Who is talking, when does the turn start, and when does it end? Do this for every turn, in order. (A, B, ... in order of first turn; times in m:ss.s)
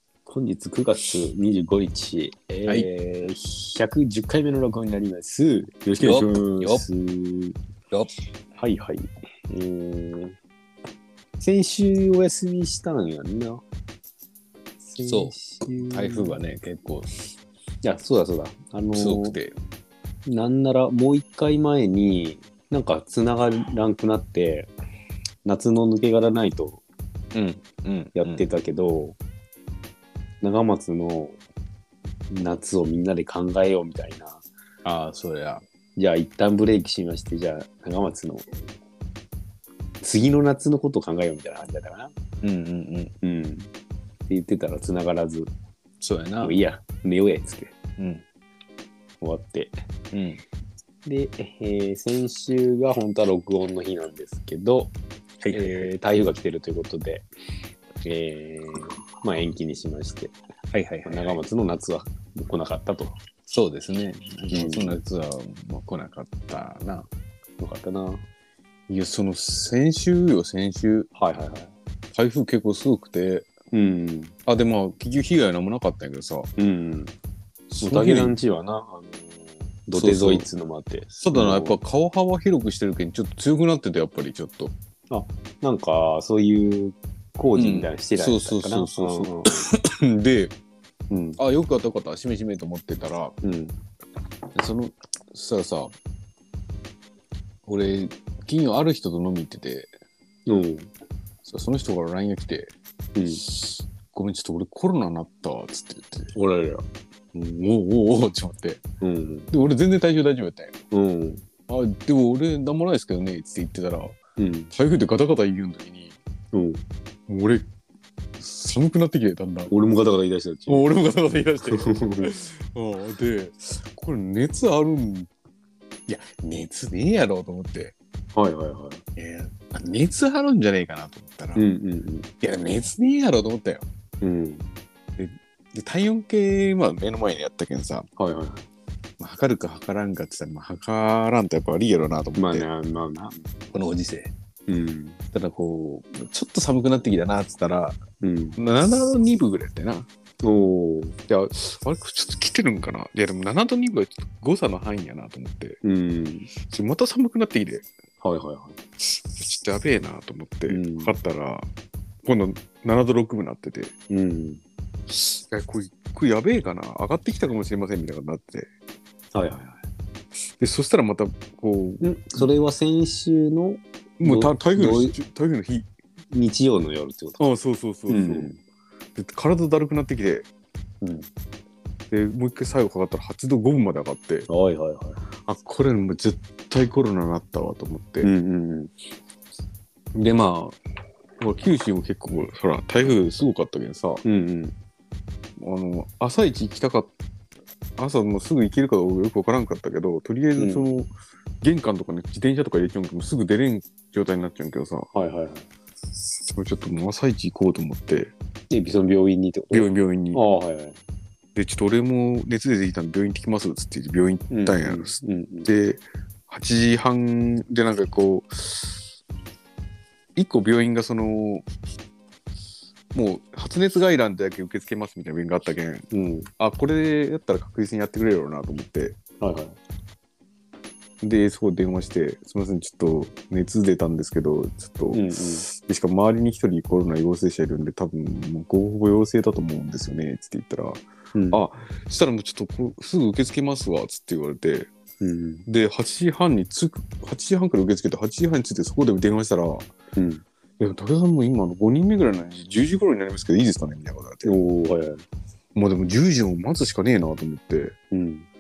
0:00.3-0:07.6 A
0:06.0-0:06.9 B
0:08.6-0:10.4 A
0:11.4-0:13.6 A
0:14.8-0:16.4 A
0:15.0-0:17.2 B
0:17.8-0:19.4 A
0:18.9-0:19.6 B
0:20.2-0:24.7 A
0:25.4-0:26.8 A
0:27.3-0:28.5 B
0:28.2-0:29.2 A
0:30.4-0:31.4 A
0:32.3-0:34.4 A
0:34.8-0:35.6 B
0:36.0-0:38.5 A
0:40.0-0:42.1 A
0:42.4-0:43.1 B
0:43.2-0:43.7 A
0:44.3-0:45.5 A
0:46.0-0:46.6 B
0:46.4-0:47.8 A
0:48.0-0:48.2 B
0:49.2-0:49.8 A
0:50.1-0:50.4 B
0:51.0-0:55.0 A
0:55.4-0:55.9 B
0:55.5-0:57.3 A
0:58.0-1:00.4 A
1:00.7-1:01.4 B
1:01.0-1:03.1 A
1:03.5-1:07.1 B
1:04.5-1:05.0 A
1:07.6-1:08.3 A
1:08.9-1:11.1 B
1:11.2-1:11.7 A
1:12.1-1:13.5 B
1:13.7-1:14.3 A
1:14.5-1:16.5 B
1:16.6-1:17.1 A
1:17.7-1:18.4 B
1:17.8-1:21.8 A
1:19.9-1:20.5 B
1:21.2-1:24.8 B
1:25.1-1:29.7 A
1:27.6-1:30.5 B
1:31.1-1:31.4 A
1:31.4-1:33.4 B
1:33.4-1:33.8 A
1:34.6-1:36.0 B
1:37.7-1:39.9 B
1:40.5-1:40.9 A
1:41.4-1:42.7 B
1:43.2-1:43.4 A
1:43.3-1:46.3 B
1:46.3-1:46.9 A
1:47.3-1:48.8 B
1:49.0-1:49.5 A
1:49.5-1:50.7 B
1:50.9-1:51.5 A
1:51.7-1:54.2 B
1:54.4-1:54.7 A
1:54.7-1:56.2 B
1:56.5-1:56.8 A
1:57.3-1:57.7 B
1:58.4-1:59.7 B
1:59.7-2:01.0 A
2:00.7-2:05.3 B
2:01.6-2:02.3 A
2:06.1-2:08.0 B
2:08.3-2:09.0 A
2:09.2-2:11.6 B
2:11.6-2:12.3 A
2:12.4-2:13.8 B
2:14.2-2:14.7 A
2:15.2-2:18.1 B
2:18.2-2:18.7 A
2:19.2-2:22.7 B
2:22.4-2:23.6 A
2:23.7-2:24.3 B
2:24.7-2:25.2 A
2:25.3-2:28.0 B
2:28.2-2:28.6 A
2:28.6-2:30.1 B
2:30.4-2:31.2 A
2:31.3-2:35.8 B
2:35.8-2:36.5 A
2:36.6-2:37.9 B
2:38.2-2:38.8 A
2:39.0-2:41.7 B
2:40.7-2:41.1 A
2:42.2-2:43.9 B
2:44.1-2:44.6 A
2:45.1-2:48.7 B
2:49.3-2:49.8 A
2:50.6-2:52.5 B
2:52.0-2:55.2 A
2:54.2-2:55.9 B
2:56.3-2:57.4 A
2:57.4-2:58.5 B
2:58.1-2:58.6 A
2:59.2-3:00.5 B
3:01.0-3:01.3 A
3:02.1-3:04.5 B
3:04.5-3:05.2 A
3:05.4-3:08.3 B
3:08.2-3:08.9 A
3:10.1-3:10.8 B
3:11.4-3:14.2 B
3:14.2-3:14.8 A
3:15.6-3:17.1 B
3:18.0-3:21.1 B
3:20.6-3:20.9 A
3:21.6-3:25.1 B
3:25.1-3:25.7 A
3:26.5-3:28.3 B
3:28.7-3:31.0 A
3:29.7-3:30.4 B
3:31.6-3:39.0 B
3:34.5-3:35.7 A
3:40.4-3:41.6 B
3:43.1-3:46.1 B
3:46.1-3:46.5 A
3:46.6-3:49.2 B
3:49.4-3:49.8 A
3:51.2-4:04.9 B
3:55.1-3:55.7 A
4:01.4-4:01.6 A
4:05.2-4:05.7 A
4:05.7-4:09.9 B
4:10.2-4:10.4 A
4:10.8-4:14.6 B
4:14.4-4:15.2 A
4:15.8-4:18.0 B
4:18.1-4:18.5 A